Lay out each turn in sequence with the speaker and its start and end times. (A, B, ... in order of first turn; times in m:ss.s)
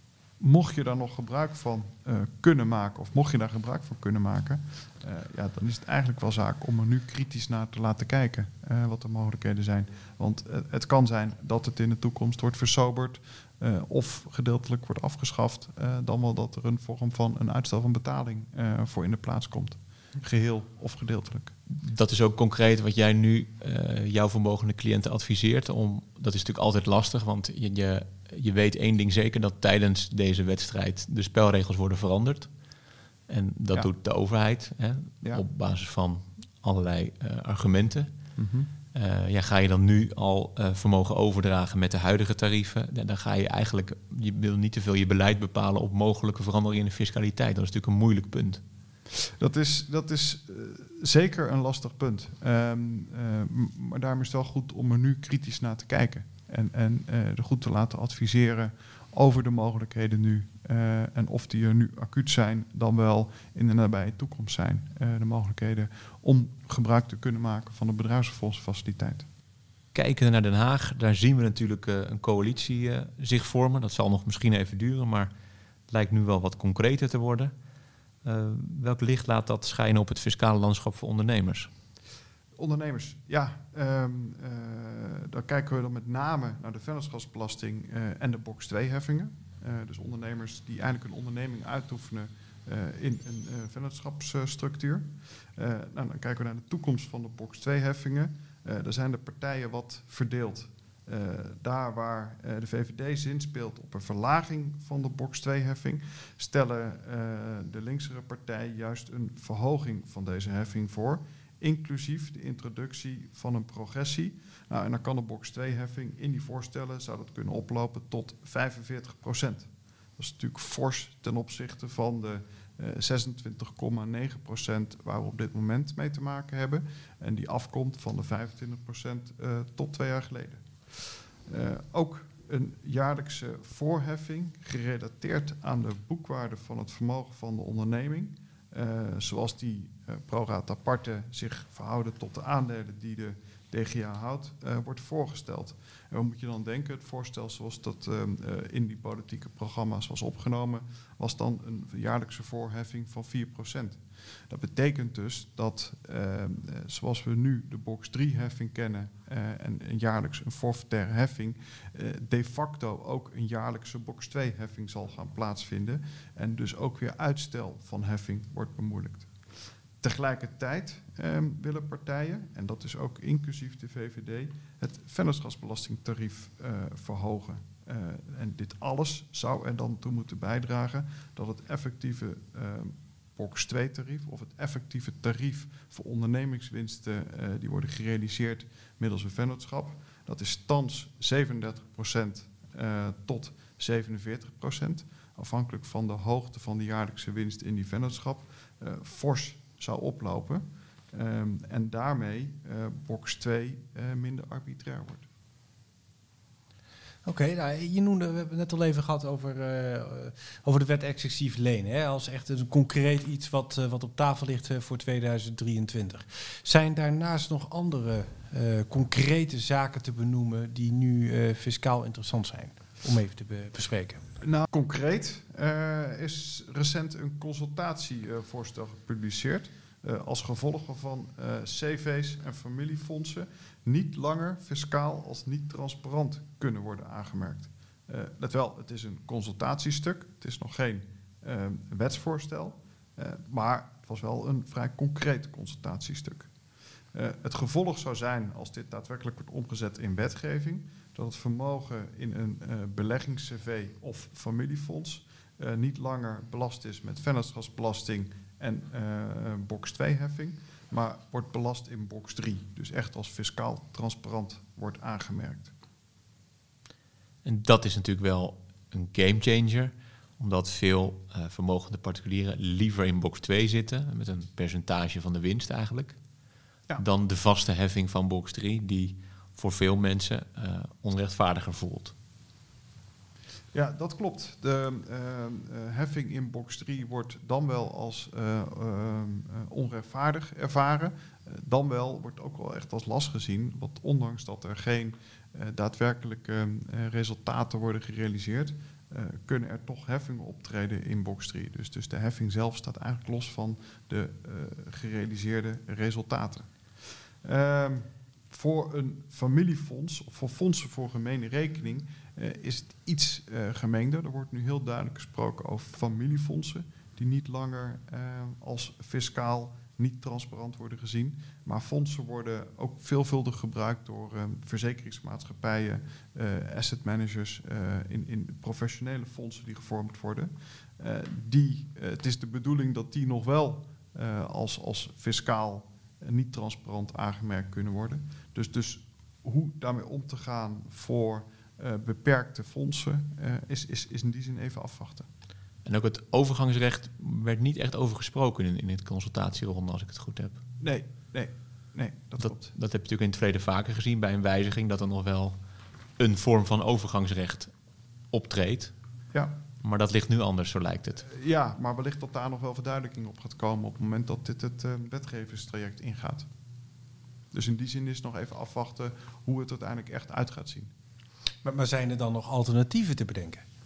0:00.4-0:21.5 A
0:21.7-0:32.5 B
0:33.3-0:38.1 B
0:38.4-0:38.7 A
0:38.9-0:48.6 B
0:49.3-1:09.2 A
1:09.9-1:15.3 B
1:15.9-1:17.5 B
1:18.2-1:21.7 B
1:22.6-2:49.3 A
2:50.0-3:25.3 A
3:27.2-3:44.2 C
3:44.4-4:06.5 A
4:07.1-4:25.7 A
4:27.4-4:36.2 B
4:37.0-4:42.1 B
4:43.7-5:45.3 A
5:45.8-5:50.6 B
5:50.8-5:52.7 A
5:52.4-5:55.6 B
5:56.2-5:57.7 B
5:58.3-5:58.9 B
5:59.8-6:01.3 B
6:01.2-6:06.5 A
6:07.5-6:10.9 A
6:11.6-6:13.6 C